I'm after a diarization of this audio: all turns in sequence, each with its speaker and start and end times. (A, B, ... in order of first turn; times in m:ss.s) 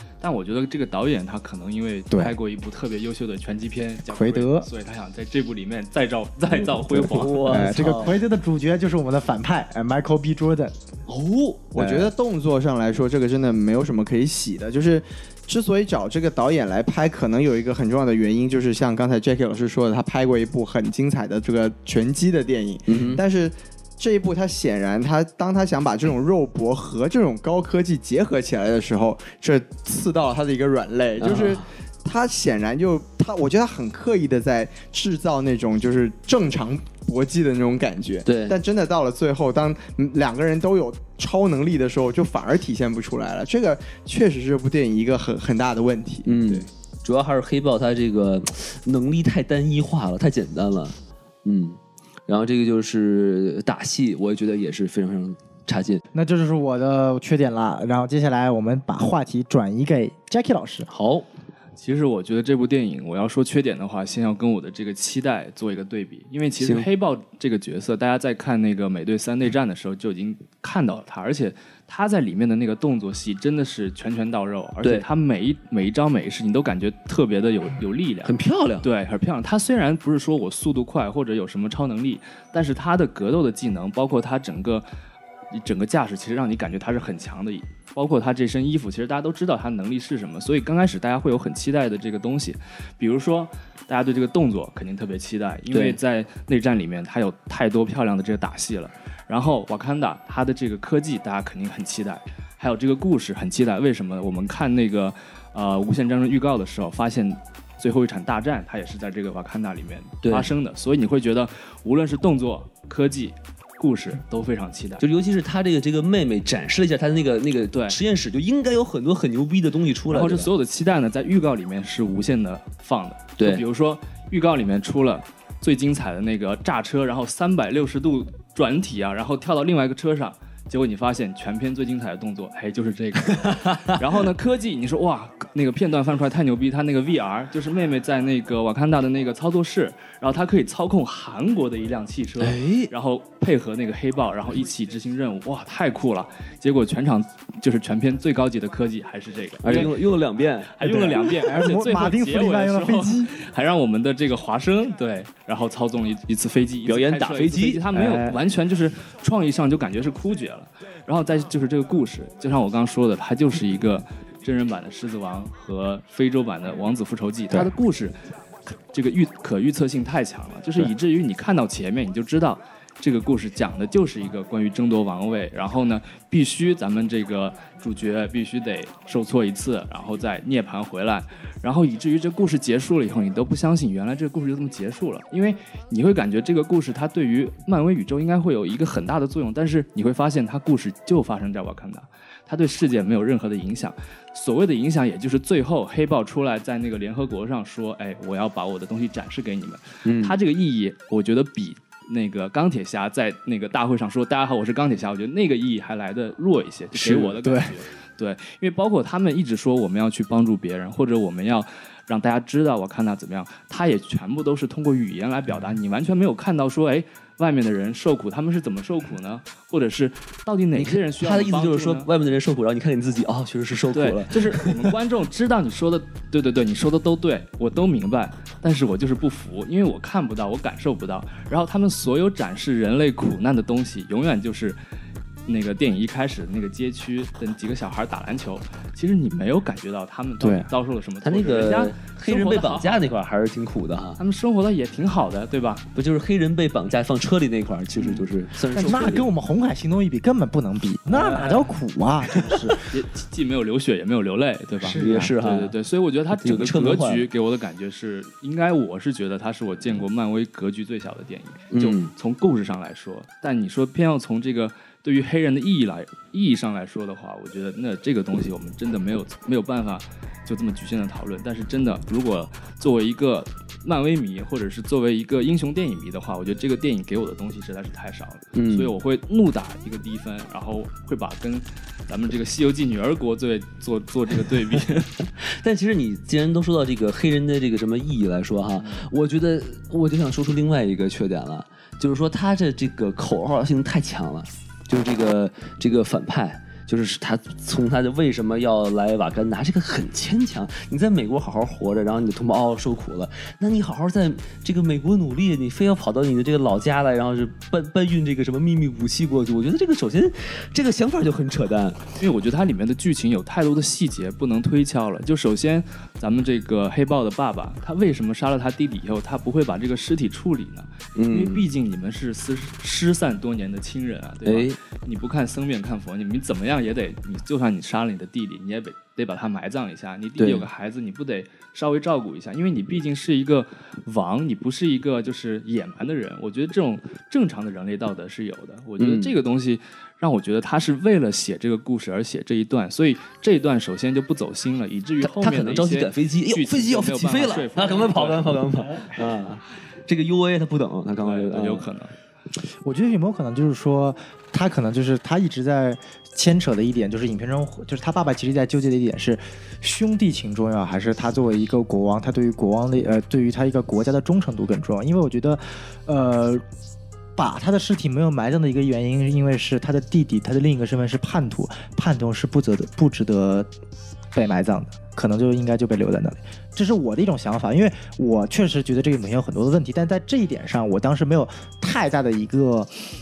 0:00.2-0:07.6 A
0:04.1-0:04.7 B
0:06.9-0:10.7 B
0:06.9-0:08.2 C
0:11.1-0:11.7 C
0:11.7-0:46.6 D
0:11.8-0:12.1 B
0:22.9-0:23.2 C
0:31.2-0:31.6 C
0:38.2-0:38.6 C
0:46.2-0:56.0 C
0:56.1-1:00.9 B
1:00.9-1:01.2 C
1:01.8-1:24.9 A
1:06.6-1:06.9 C
1:18.2-1:18.9 C
1:25.5-1:55.0 A
1:35.7-1:36.0 C
1:50.2-1:50.5 C
1:55.0-2:00.5 C
2:00.1-2:30.1 A
2:03.4-2:03.6 C
2:13.3-2:14.0 C
2:22.4-2:22.9 C
2:29.6-2:31.4 C
2:30.7-2:48.1 A
2:31.4-2:33.3 B
2:36.8-2:37.8 C
2:37.9-2:38.4 B
2:48.7-3:42.1 A
3:20.0-3:20.4 C
3:27.0-3:27.3 C
3:27.2-3:27.7 B
3:40.7-3:44.9 C
3:43.9-3:54.8 A
3:55.5-4:03.1 A
4:00.4-4:00.7 B
4:01.2-4:04.2 C
4:04.2-4:05.8 A
4:05.9-4:09.3 C
4:08.0-4:09.2 A
4:08.8-4:12.8 B
4:11.1-4:11.7 C
4:12.9-4:45.2 A
4:14.8-4:15.3 B
4:14.9-4:15.7 C
4:16.4-4:17.3 C
4:21.7-4:22.1 C
4:38.5-4:38.9 C
4:45.4-5:12.0 C
5:12.2-5:48.6 A
5:21.2-5:21.6 C
5:24.4-5:24.8 C
5:30.4-5:30.7 C
5:39.0-5:39.3 C
5:45.2-5:51.9 C
5:51.2-5:52.1 A
5:52.8-6:06.6 B
6:07.4-6:13.7 B
6:14.3-6:22.9 B